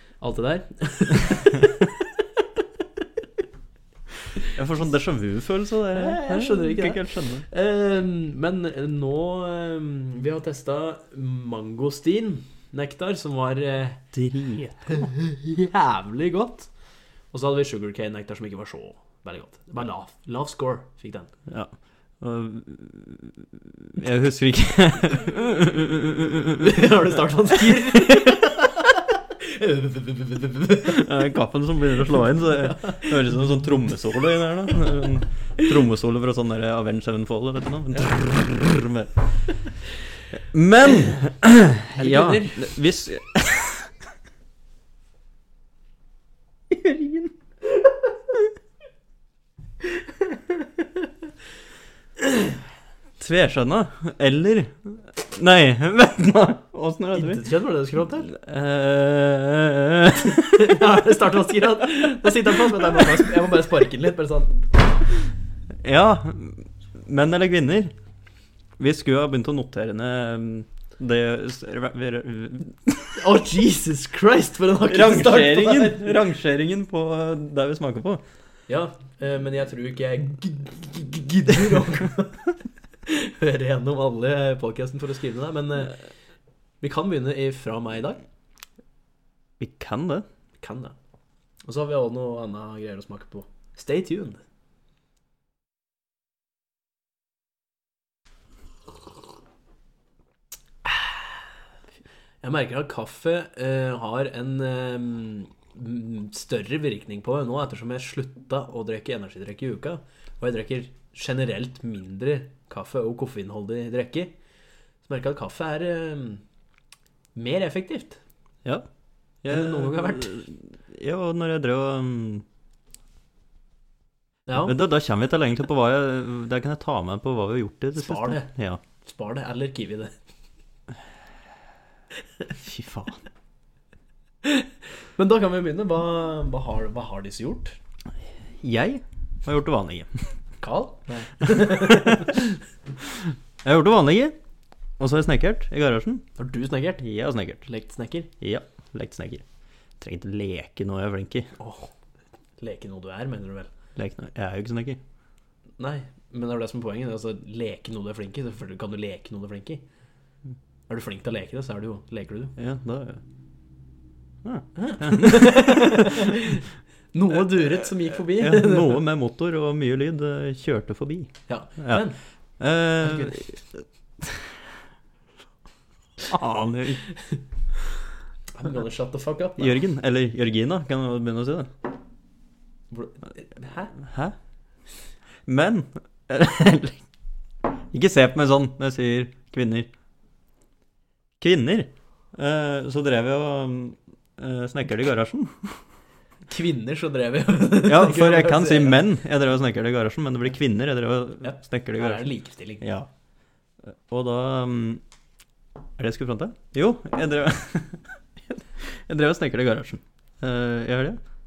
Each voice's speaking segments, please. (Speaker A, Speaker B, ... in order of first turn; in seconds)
Speaker A: 0.2-3.0, 5.9-14.1, 14.9-16.7, 17.3-21.3, 26.5-31.1, 32.4-33.1, 41.9-42.8, 57.1-58.3, 60.4-64.7, 73.1-76.3, 78.7-82.5, 83.0-86.0, 86.8-88.2, 90.6-91.0, 91.7-94.4, 100.8-101.5, 102.4-114.3, 115.0-116.4, 117.3-118.2, 119.5-120.5, 124.5-124.8, 128.0-128.5, 129.0-130.2, 134.4-137.8, 140.6-142.6, 146.4-147.0, 147.7-148.3, 151.6-151.9, 152.6-153.7, 155.8-159.8, 160.9-162.6, 164.8-169.1, 171.5-172.2, 173.0-173.5, 178.5-179.8, 182.9-183.9, 196.5-199.0, 201.4-202.9
Speaker B: 4.4-7.5, 14.1-15.1, 21.5-28.7, 30.8-39.5, 40.3-43.9, 46.7-47.3, 53.2-57.5, 58.2-61.0, 62.2-63.3, 65.8-67.9, 68.8-73.2, 74.9-78.2, 89.6-90.3, 119.4-122.5, 124.6-128.8, 132.6-133.2, 138.6-140.3, 141.4-142.4, 143.0-144.4, 145.0-146.2, 147.0-147.7, 148.4-149.4, 150.0-151.5, 154.0-155.0, 162.6-163.2, 164.4-166.4, 167.6-172.1, 172.6-174.5, 176.2-177.1, 179.6-181.7, 183.9-184.3, 185.5-187.0, 187.7-189.9, 191.4-195.8, 197.8-202.3, 202.8-203.1, 203.8-205.0, 206.0-211.2